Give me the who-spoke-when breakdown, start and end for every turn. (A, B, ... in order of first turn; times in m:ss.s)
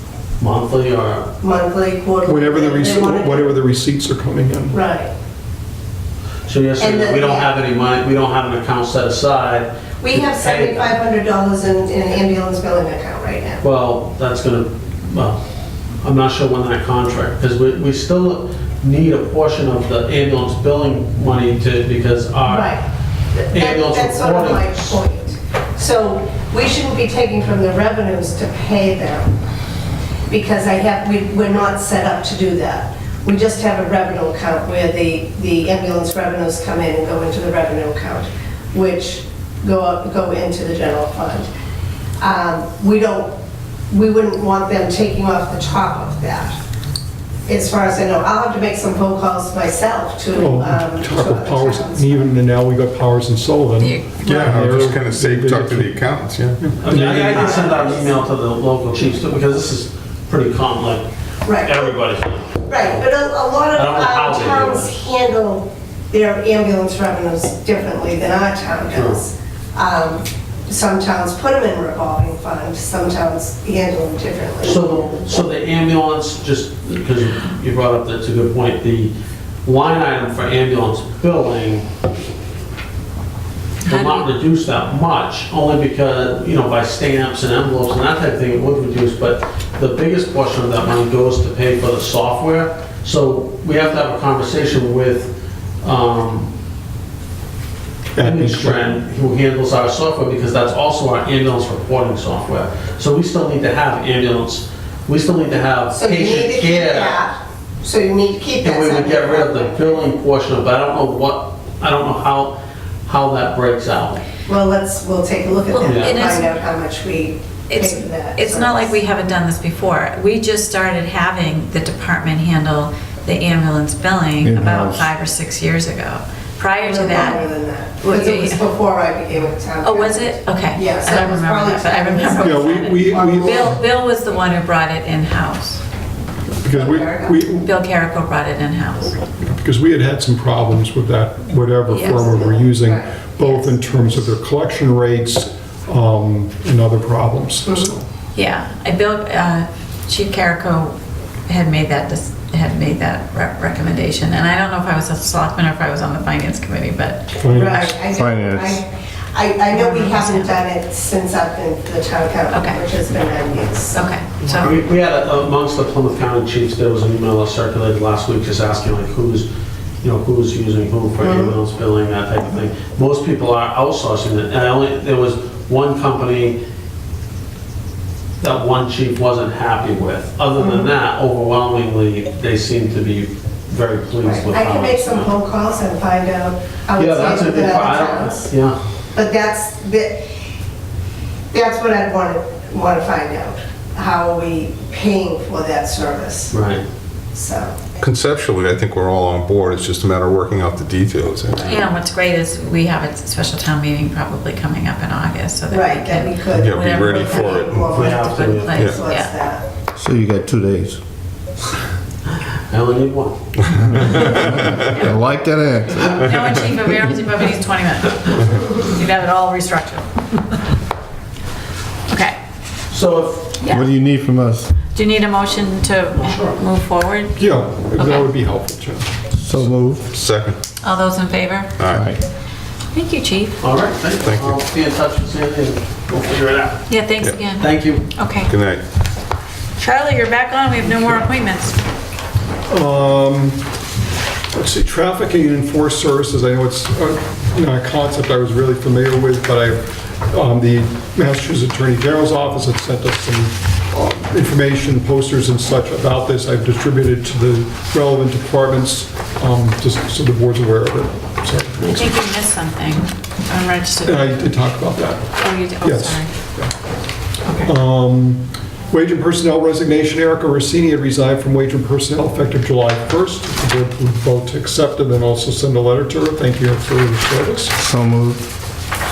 0:00.4-0:01.3 A
0:01.4-0:03.5 B
0:02.2-0:04.8 C
0:04.7-0:05.1 B
0:06.5-0:11.0 A
0:06.8-0:07.5 B
0:10.0-0:13.6 B
0:13.6-0:15.4 A
0:16.0-0:22.8 A
0:22.5-0:22.8 B
0:23.3-0:29.3 B
0:23.5-0:25.0 A
0:30.3-0:41.5 B
0:42.2-0:43.3 B
0:43.9-0:46.6 B
0:47.5-0:52.3 B
0:50.3-0:56.0 C
0:53.8-0:54.5 D
0:54.3-0:57.4 E
0:56.6-0:57.0 C
0:56.8-1:01.1 A
0:57.1-0:57.9 B
1:01.4-1:02.0 B
1:01.6-1:03.1 A
1:02.7-1:15.2 B
1:03.7-1:04.9 A
1:08.9-1:09.2 A
1:14.6-1:19.1 A
1:19.7-1:21.9 A
1:23.8-1:24.3 D
1:23.9-1:36.5 A
1:38.2-1:38.9 C
1:38.2-1:47.2 A
1:45.9-1:50.1 B
1:48.6-1:54.2 A
1:54.5-1:59.0 B
1:55.7-1:56.6 D
1:55.8-1:56.2 A
1:57.7-2:07.5 D
2:04.4-2:05.1 F
2:06.7-2:13.8 B
2:08.0-2:08.7 D
2:09.8-2:15.8 D
2:12.4-2:13.8 C
2:16.6-2:17.7 C
2:16.7-2:17.4 B
2:17.5-2:19.2 D
2:19.4-2:28.0 C
2:21.9-2:22.6 D
2:22.1-2:23.1 B
2:23.4-2:23.7 D
2:28.3-2:30.9 D
2:31.5-2:37.8 D
2:37.4-2:37.9 C
2:37.5-2:44.0 B
2:38.1-2:38.8 F
2:39.7-2:40.6 D
2:42.5-2:42.8 D
2:43.9-2:44.8 D
2:44.5-2:49.5 A
2:50.0-2:56.6 A
2:51.2-2:51.6 B
2:58.4-3:05.3 A
3:00.6-3:00.9 B
3:04.2-3:08.5 B
3:07.0-3:08.8 A
3:09.1-3:10.2 B
3:11.5-3:16.6 B
3:16.5-3:16.8 A
3:17.3-3:17.8 B
3:18.0-3:21.8 E
3:21.6-3:29.3 D
3:25.7-3:29.6 B
3:26.5-3:28.1 E
3:28.0-3:28.8 A
3:28.8-3:29.0 E
3:30.0-3:31.0 F
3:32.7-3:33.4 A
3:33.8-3:36.2 F
3:34.2-3:34.9 E
3:36.1-3:40.4 D
3:42.1-3:42.4 D
3:42.9-3:43.6 A
3:43.6-3:43.9 D
3:43.7-3:44.7 F
3:44.9-3:48.3 D
3:46.2-3:46.6 A
3:47.4-3:49.2 C
3:49.4-3:50.1 F
3:50.1-3:50.6 E
3:50.8-3:51.8 D
3:51.8-3:52.1 E
3:51.9-3:52.2 F
3:52.9-3:53.6 D
3:53.6-3:56.9 A
3:54.2-3:54.6 E
3:56.9-3:58.5 D
3:57.6-3:58.1 A
3:58.4-3:58.8 E
3:59.8-4:01.8 D
4:02.7-4:03.6 C
4:04.5-4:22.2 C
4:21.9-4:24.5 D
4:24.0-4:26.8 C
4:25.4-4:26.3 D
4:27.6-4:37.8 C
4:37.8-4:38.5 F